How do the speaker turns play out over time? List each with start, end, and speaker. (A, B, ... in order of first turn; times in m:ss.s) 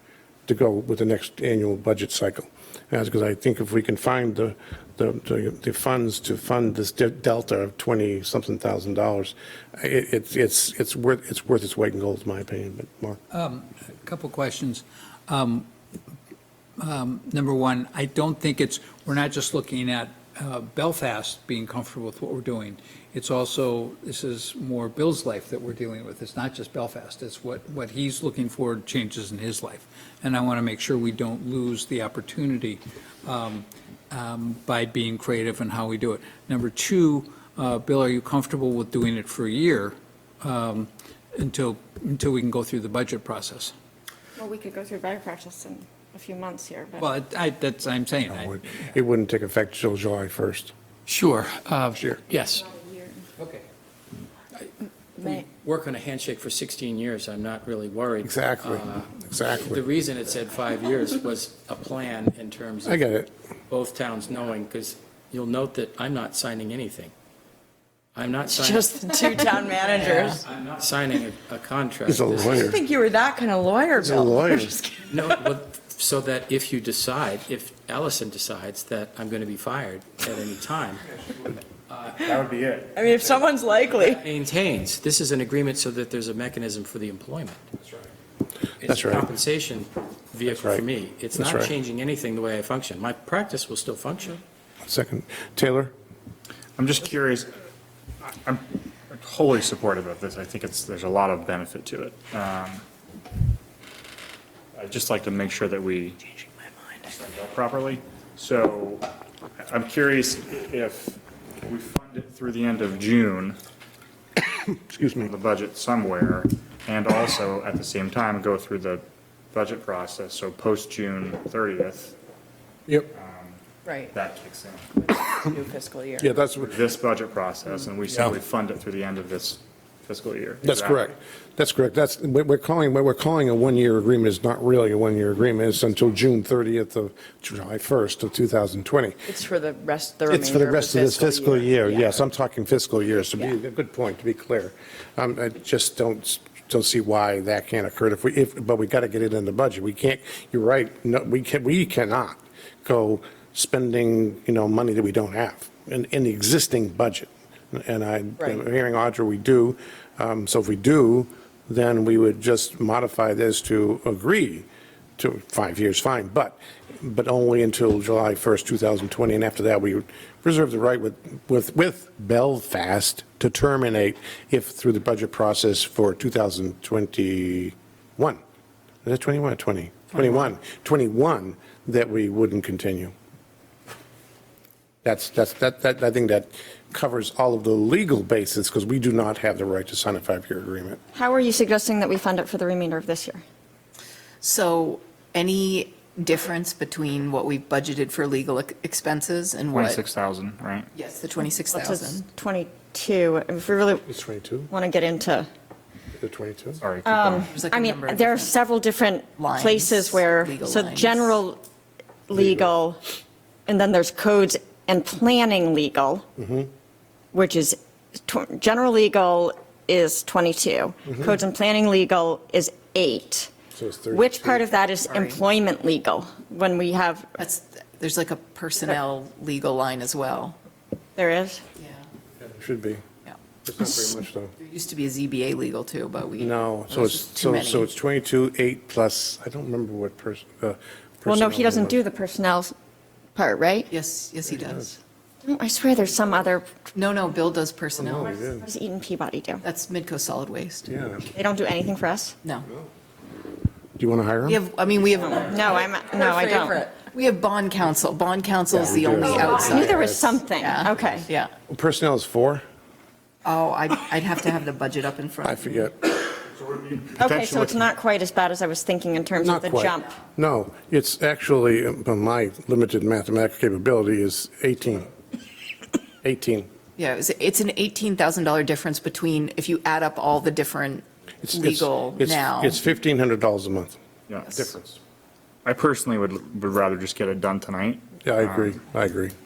0:00.5-0:13.2 A
0:13.3-0:15.7 B
0:16.8-0:43.7 B
0:44.4-0:47.1 C
0:47.0-0:48.6 B
0:48.3-0:50.7 A
0:51.1-0:52.6 D
0:52.0-0:52.2 A
0:52.4-0:53.2 C
0:53.4-0:53.6 B
0:54.6-1:03.0 D
0:58.2-0:59.8 A
1:02.8-1:03.3 A
1:03.7-1:07.1 D
1:08.1-1:12.7 D
1:08.4-1:10.5 E
1:12.1-1:12.8 A
1:12.6-1:15.5 E
1:14.0-1:14.9 A
1:15.1-1:22.2 D
1:22.2-1:23.0 F
1:22.9-1:24.3 E
1:23.0-1:27.6 D
1:28.8-1:29.3 A
1:28.8-1:34.4 D
1:30.4-1:31.7 A
1:34.8-1:35.9 A
1:36.8-1:37.5 F
1:38.4-1:42.8 F
1:44.8-1:46.2 F
1:47.1-1:49.1 F
1:49.7-1:53.6 F
1:54.5-1:55.3 A
1:55.2-2:02.1 F
2:02.9-2:03.1 A
2:03.1-2:03.6 F
2:03.9-2:04.1 E
2:04.1-2:04.9 F
2:05.0-2:06.6 E
2:06.2-2:06.7 A
2:06.7-2:11.1 F
2:10.6-2:19.2 A
2:19.3-2:22.2 E
2:20.3-2:44.7 A
2:45.2-2:58.4 A
2:59.0-3:03.1 A
3:05.0-3:11.0 A
3:11.1-3:13.4 C
3:14.4-3:20.0 G
3:19.7-3:20.9 F
3:20.9-3:22.2 G
3:21.7-3:24.1 C
3:24.1-3:24.7 A
3:24.7-3:25.5 C
3:26.2-3:26.8 A
3:26.8-3:27.5 F
3:27.1-3:31.6 C
3:27.4-3:28.5 G
3:29.4-3:31.4 G
3:32.3-3:33.0 C
3:32.3-3:32.7 A
3:33.7-3:36.3 C
3:36.4-3:36.7 A
3:37.3-3:43.5 C
3:41.1-3:41.3 A
3:43.7-3:44.7 A
3:44.1-3:47.4 C
3:45.1-3:45.4 G
3:47.4-3:50.6 G
3:51.2-3:51.6 C
3:51.8-3:52.0 G
3:52.4-3:53.0 A
3:53.6-3:54.6 A
3:54.6-3:57.9 G
3:56.4-4:02.0 A
4:01.3-4:02.8 C
4:03.4-4:03.9 C
4:03.9-4:05.0 G
4:04.5-4:04.9 A
4:05.4-4:06.8 C
4:07.0-4:08.4 G
4:08.0-4:08.7 A
4:08.4-4:09.6 C
4:09.6-4:10.9 G
4:10.9-4:11.3 A
4:11.3-4:12.4 C
4:14.0-4:14.6 A
4:14.4-4:20.0 G
4:15.3-4:16.9 C
4:16.2-4:17.0 E
4:18.7-4:22.6 A
4:19.2-4:21.3 C
4:20.6-4:21.5 G
4:23.4-4:25.8 G
4:25.4-4:27.2 A
4:27.2-4:30.2 C
4:29.4-4:35.1 A
4:36.2-4:36.7 A
4:37.0-4:42.8 G
4:41.4-4:44.0 A
4:44.5-4:45.0 A
4:45.6-4:48.8 F
4:48.2-4:49.3 A